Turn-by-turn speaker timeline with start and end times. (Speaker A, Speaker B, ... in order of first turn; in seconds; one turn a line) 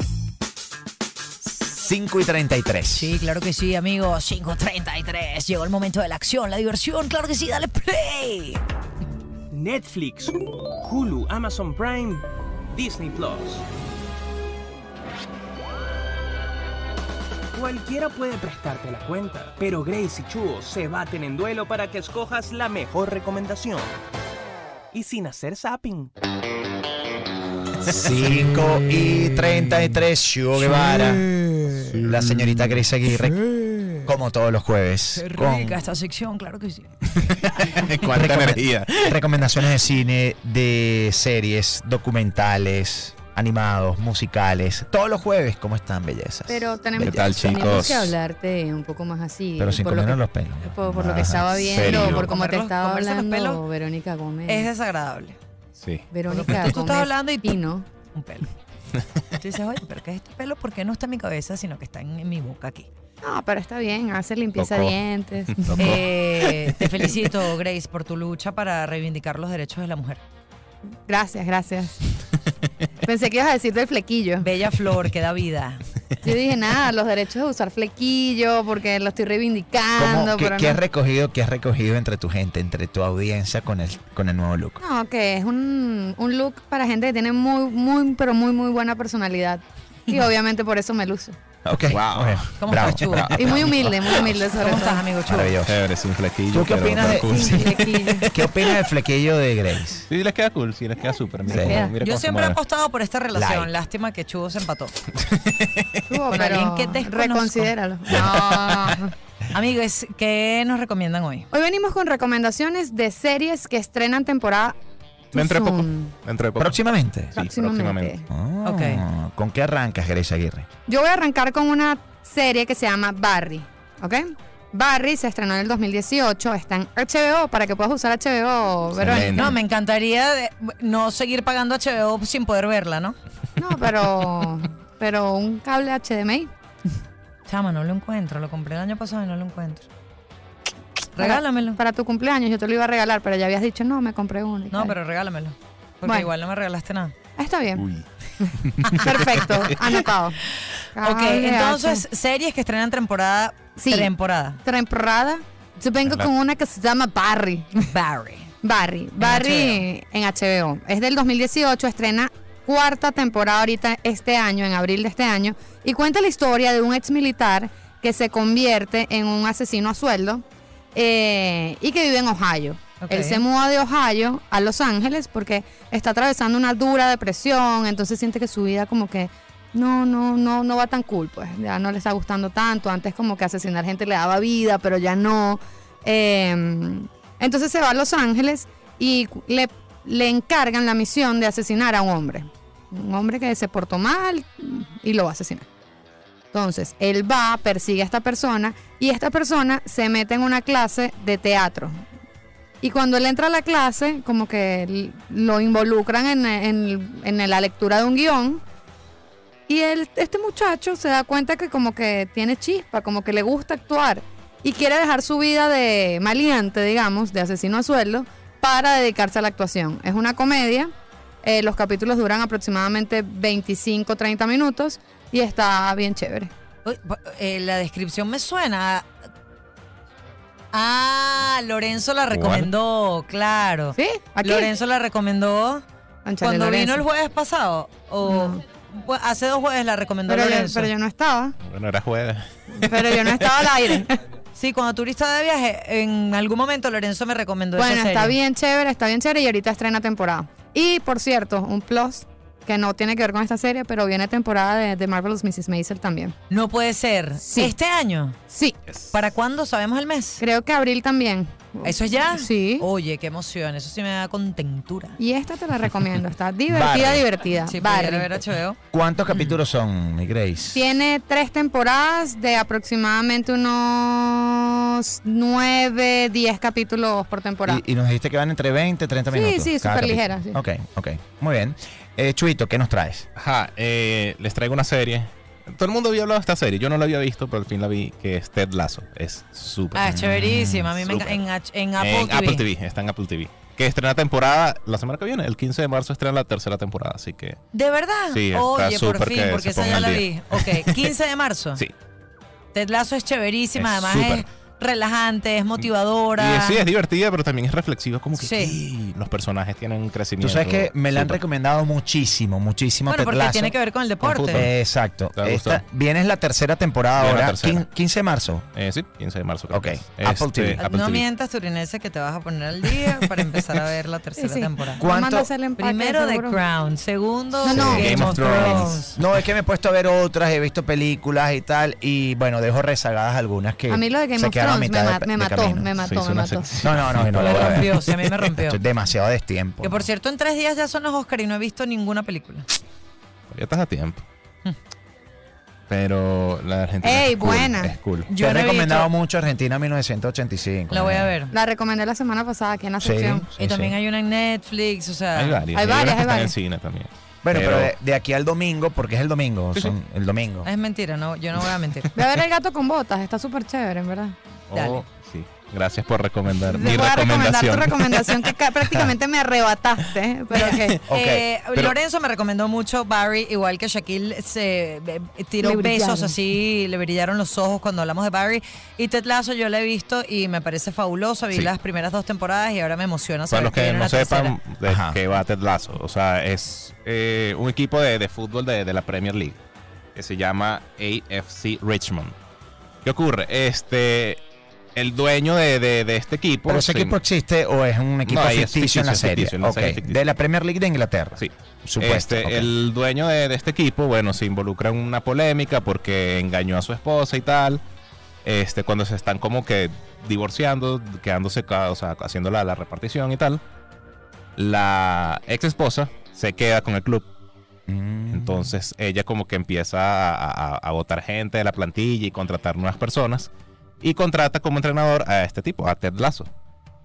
Speaker A: 1.4-3.2
Speaker B: 2.9-8.6
Speaker C: 9.5-13.7
Speaker C: 17.5-23.9
Speaker C: 24.9-26.1
Speaker A: 27.9-31.3
Speaker D: 31.6-32.8
Speaker A: 32.0-33.4
Speaker A: 34.0-35.8
Speaker B: 35.1-36.9
Speaker D: 37.1-39.8
Speaker A: 38.1-47.0
Speaker E: 46.5-54.7
Speaker D: 47.0-48.1
Speaker A: 49.6-51.8
Speaker D: 51.6-52.3
Speaker B: 51.8-53.6
Speaker B: 54.5-55.4
Speaker D: 55.8-56.6
Speaker E: 56.1-57.9
Speaker B: 56.3-57.6
Speaker B: 58.1-58.5
Speaker B: 59.4-62.9
Speaker E: 63.2-66.0
Speaker D: 64.6-67.1
Speaker B: 65.8-70.2
Speaker E: 71.1-72.0
Speaker E: 73.0-74.5
Speaker B: 74.4-75.8
Speaker E: 76.2-80.8
Speaker A: 80.0-84.8
Speaker E: 84.8-91.4
Speaker A: 91.7-93.9
Speaker D: 91.9-94.3
Speaker B: 92.6-93.6
Speaker E: 93.3-95.0
Speaker B: 94.5-95.6
Speaker A: 95.3-95.8
Speaker D: 95.6-98.2
Speaker A: 96.5-100.1
Speaker E: 97.0-98.7
Speaker D: 100.1-102.6
Speaker E: 101.0-102.0
Speaker A: 101.5-101.9
Speaker B: 102.0-105.0
Speaker A: 103.3-103.7
Speaker D: 105.2-106.0
Speaker E: 106.1-109.2
Speaker B: 106.3-107.7
Speaker D: 108.1-109.0
Speaker B: 109.5-111.5
Speaker E: 111.5-114.8
Speaker E: 115.3-116.1
Speaker D: 115.3-118.2
Speaker A: 116.6-117.4
Speaker E: 117.4-118.3
Speaker A: 118.3-120.7
Speaker B: 118.6-119.0
Speaker E: 120.9-129.5
Speaker D: 128.9-129.6
Speaker B: 129.3-133.2
Speaker E: 133.6-136.5
Speaker B: 137.5-139.9
Speaker B: 141.2-141.8
Speaker E: 141.2-145.0
Speaker B: 144.7-147.2
Speaker E: 146.0-146.3
Speaker E: 147.4-147.8
Speaker D: 147.8-150.0
Speaker E: 148.4-150.4
Speaker E: 150.9-152.0
Speaker B: 151.0-154.6
Speaker E: 153.8-154.1
Speaker E: 154.6-157.9
Speaker B: 157.9-158.5
Speaker E: 158.6-195.7
Speaker B: 159.2-159.8
Speaker B: 173.0-173.4
Speaker E: 196.5-202.0
Speaker E: 202.8-208.6
Speaker E: 209.7-220.9
Speaker E: 221.4-226.5
Speaker B: 226.8-229.1
Speaker B: 230.7-235.8
Speaker D: 232.3-232.7
Speaker E: 233.9-234.7
Speaker E: 236.2-237.0
Speaker B: 236.4-240.9
Speaker E: 238.2-238.6
Speaker E: 240.3-241.6
Speaker D: 241.6-243.7
Speaker E: 242.7-244.2
Speaker B: 244.5-248.4
Speaker E: 247.8-256.4
Speaker B: 256.5-258.4
Speaker E: 257.4-257.7
Speaker E: 258.5-258.8
Speaker D: 258.9-259.1
Speaker B: 259.1-260.4
Speaker E: 260.4-262.9
Speaker B: 261.8-265.2
Speaker E: 265.2-268.4
Speaker A: 266.7-267.3
Speaker B: 267.6-268.8
Speaker A: 268.9-270.8
Speaker D: 269.3-269.6
Speaker E: 270.7-277.8
Speaker A: 277.6-283.2
Speaker E: 279.3-280.6
Speaker D: 283.4-291.4
Speaker B: 289.9-292.7
Speaker D: 292.0-297.6
Speaker B: 297.7-301.8
Speaker D: 298.3-301.1
Speaker B: 302.7-306.9
Speaker D: 303.8-304.4
Speaker D: 305.8-311.4
Speaker B: 308.4-308.8
Speaker A: 310.4-313.8
Speaker B: 313.1-314.7
Speaker D: 314.2-314.7
Speaker A: 314.5-318.7
Speaker D: 315.4-315.8
Speaker D: 317.2-317.9
Speaker D: 318.7-321.2
Speaker A: 319.7-320.8
Speaker B: 320.8-325.1
Speaker E: 324.4-326.6
Speaker A: 325.0-325.5
Speaker B: 325.8-329.2
Speaker E: 327.6-328.3
Speaker A: 327.7-335.9
Speaker D: 327.8-329.4
Speaker E: 333.9-336.9
Speaker D: 336.0-338.4
Speaker A: 336.8-338.0
Speaker B: 337.3-338.8
Speaker A: 338.6-340.1
Speaker B: 339.8-342.7
Speaker D: 343.5-344.2
Speaker D: 345.9-348.3
Speaker E: 347.0-348.0
Speaker B: 348.3-349.1
Speaker A: 348.3-351.3
Speaker B: 350.9-351.5
Speaker E: 351.5-353.5
Speaker A: 353.0-353.9
Speaker B: 353.6-355.6
Speaker D: 355.3-357.9
Speaker E: 355.7-356.6
Speaker A: 357.4-360.7
Speaker B: 360.6-362.1
Speaker E: 362.1-364.4
Speaker D: 364.7-369.1
Speaker B: 364.7-365.0
Speaker E: 366.6-371.0
Speaker B: 370.5-384.6
Speaker D: 370.6-371.0
Speaker A: 371.1-371.4
Speaker E: 375.6-376.4
Speaker D: 383.5-389.6
Speaker A: 384.9-385.2
Speaker D: 390.1-392.4
Speaker D: 393.0-394.4
Speaker D: 395.0-397.2
Speaker A: 396.7-402.7
Speaker D: 398.3-400.2
Speaker D: 401.4-407.8
Speaker D: 408.4-413.6
Speaker D: 414.6-417.3
Speaker A: 417.9-418.7
Speaker D: 418.3-423.5
Speaker D: 424.0-426.5